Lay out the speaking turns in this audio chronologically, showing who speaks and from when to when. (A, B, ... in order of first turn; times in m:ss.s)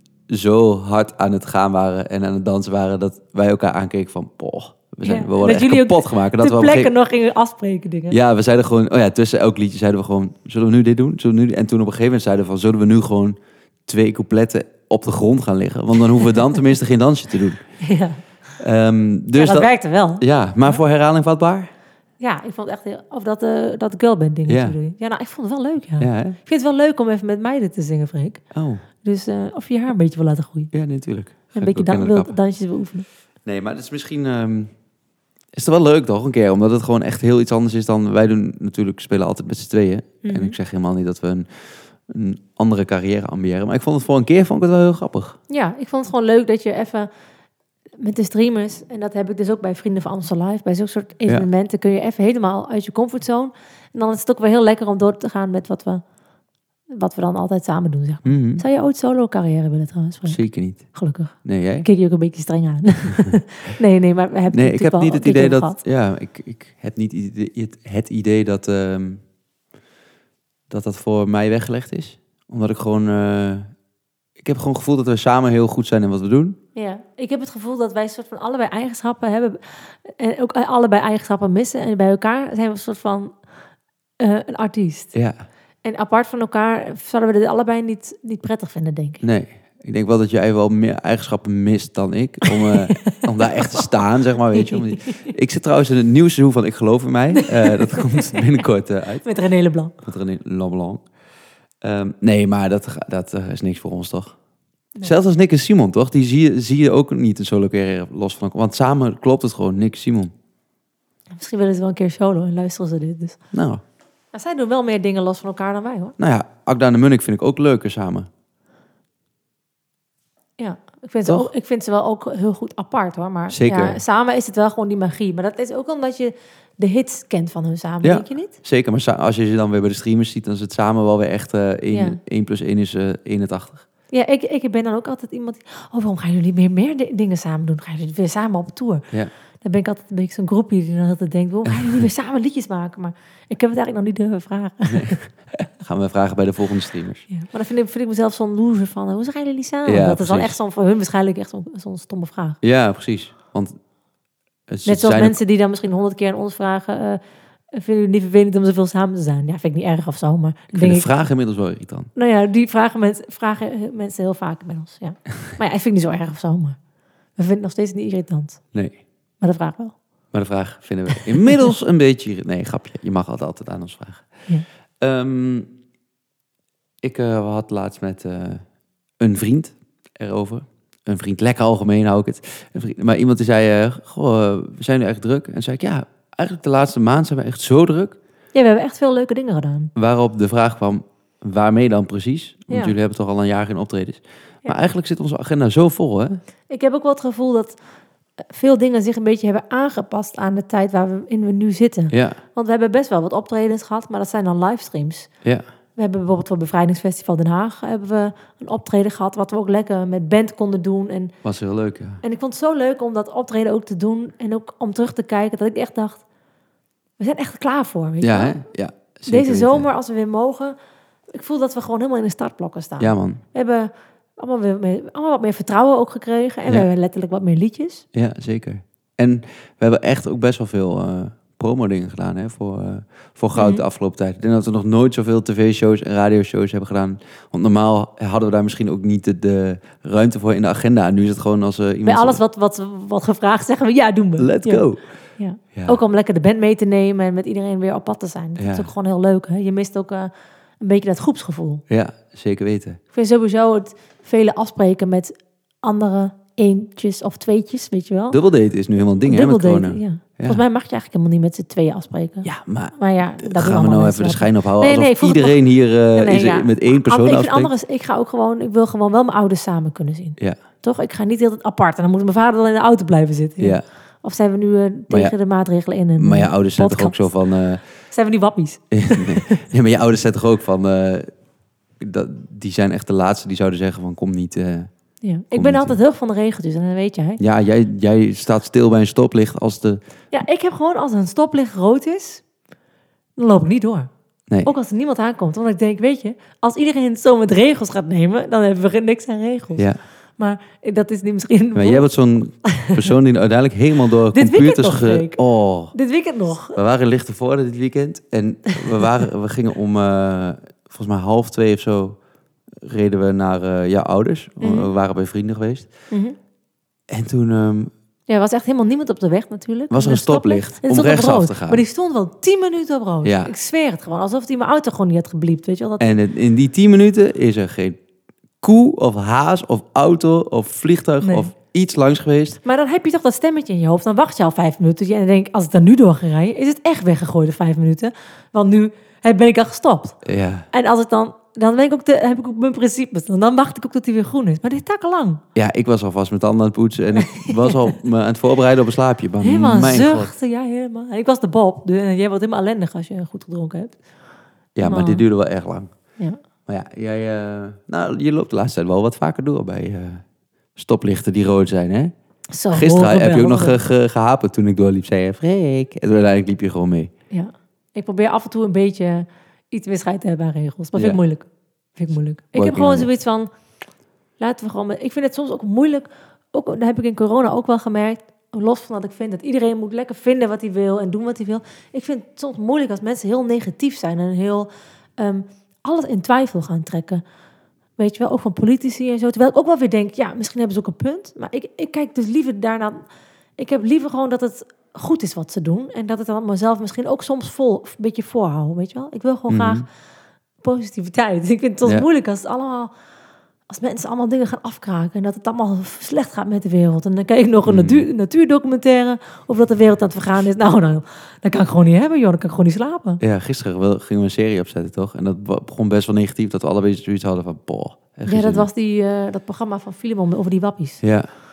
0:00.3-0:06.9 A
0:05.0-0:08.2 B
0:08.1-0:17.6 A
0:17.8-0:18.2 B
0:18.6-0:21.7 A
0:19.3-0:20.8 B
0:22.2-0:28.4 B
0:24.5-0:24.8 A
0:26.0-0:26.4 A
0:28.5-0:28.8 A
0:29.0-0:30.7 B
0:30.7-0:32.4 A
0:31.5-0:33.0 B
0:33.4-0:34.7 A
0:35.5-0:41.5 A
0:40.2-0:40.6 B
0:42.1-0:45.4 A
0:45.5-0:47.1 B
0:48.0-0:56.0 B
0:56.9-1:00.4 B
0:58.2-0:58.6 A
1:00.3-1:00.8 A
1:00.9-1:05.8 B
1:01.4-1:01.9 A
1:04.5-1:09.2 A
1:10.7-1:13.7 A
1:14.4-1:16.6 A
1:16.7-1:23.3 B
1:24.2-1:25.1 B
1:25.8-1:29.2 B
1:29.2-1:39.2 A
1:32.6-1:33.9 B
1:34.5-1:35.3 B
1:37.3-1:38.6 B
1:39.2-1:39.9 B
1:40.0-1:41.0 A
1:41.8-1:44.3 A
1:45.0-1:50.3 A
1:51.3-1:53.4 B
1:53.5-1:53.8 A
1:54.3-1:56.2 B
1:56.2-1:58.3 A
2:00.6-2:08.5 B
2:03.5-2:04.0 A
2:08.0-2:13.8 A
2:11.9-2:12.2 B
2:14.1-2:19.0 B
2:19.6-2:25.2 B
2:21.6-2:22.0 A
2:24.9-2:27.3 A
2:27.3-2:32.6 B
2:29.8-2:30.6 A
2:32.6-2:33.8 A
2:34.7-2:35.4 A
2:34.8-2:41.1 B
2:40.7-2:42.1 A
2:42.2-2:46.8 B
2:47.4-2:48.6 B
2:48.7-2:49.0 A
2:49.4-2:49.9 B
2:50.3-2:54.3 A
2:55.0-2:55.7 A
2:57.0-2:58.6 A
2:59.2-3:08.2 A
3:08.5-3:09.9 B
3:09.9-3:16.4 A
3:12.7-3:12.9 B
3:16.7-3:17.8 B
3:18.4-3:25.3 B
3:22.1-3:22.4 A
3:26.0-3:31.3 B
3:31.4-3:32.2 A
3:32.2-3:36.2 B
3:37.2-3:38.6 B
3:38.2-3:39.9 A
3:39.3-3:40.8 B
3:41.3-3:48.0 B
3:43.0-3:43.4 A
3:48.1-4:02.4 A
3:53.6-3:53.8 B
4:02.0-4:04.8 B
4:04.4-4:05.0 A
4:05.4-4:11.8 B
4:08.6-4:08.9 A
4:11.9-4:13.0 A
4:13.1-4:18.4 B
4:18.3-4:20.6 A
4:19.2-4:25.6 B
4:22.4-4:27.7 A
4:26.1-4:37.3 B
4:33.6-4:33.8 A
4:35.1-4:35.3 A
4:36.2-4:37.8 A
4:38.1-4:39.6 B
4:38.9-4:41.3 A
4:42.0-4:44.9 A
4:45.2-4:47.4 B
4:45.5-4:46.0 A
4:47.4-4:50.0 A
4:50.3-4:52.4 B
4:53.4-4:54.1 B
4:54.6-4:59.8 B
5:00.4-5:02.0 B
5:01.7-5:05.9 A
5:02.6-5:03.1 B
5:04.3-5:05.4 B
5:05.9-5:06.8 B
5:06.7-5:12.2 A
5:12.8-5:15.9 A
5:14.6-5:14.9 B
5:16.1-5:16.4 B
5:17.1-5:17.9 A
5:18.3-5:26.1 B
5:19.9-5:21.8 A
5:23.2-5:23.5 A
5:26.0-5:28.0 A
5:28.6-5:32.6 A
5:31.2-5:31.5 B
5:32.6-5:40.2 B
5:40.2-5:40.7 A
5:40.7-5:45.4 B
5:45.5-5:50.3 A
5:47.2-5:47.9 B
5:49.4-5:54.0 B
5:54.8-5:55.9 A
5:54.8-5:55.2 B
5:56.7-6:00.2 A
6:00.8-6:02.1 A
6:02.5-6:03.8 B
6:02.7-6:07.1 A
6:07.3-6:13.5 B
6:12.5-6:13.1 A
6:14.4-6:27.2 B
6:28.0-6:33.0 B
6:33.6-6:39.8 B
6:39.5-6:39.8 A
6:40.6-6:42.9 B
6:43.7-6:53.2 B
6:47.6-6:48.0 A
6:53.2-6:58.7 A
6:58.3-7:01.0 B
7:01.0-7:01.3 A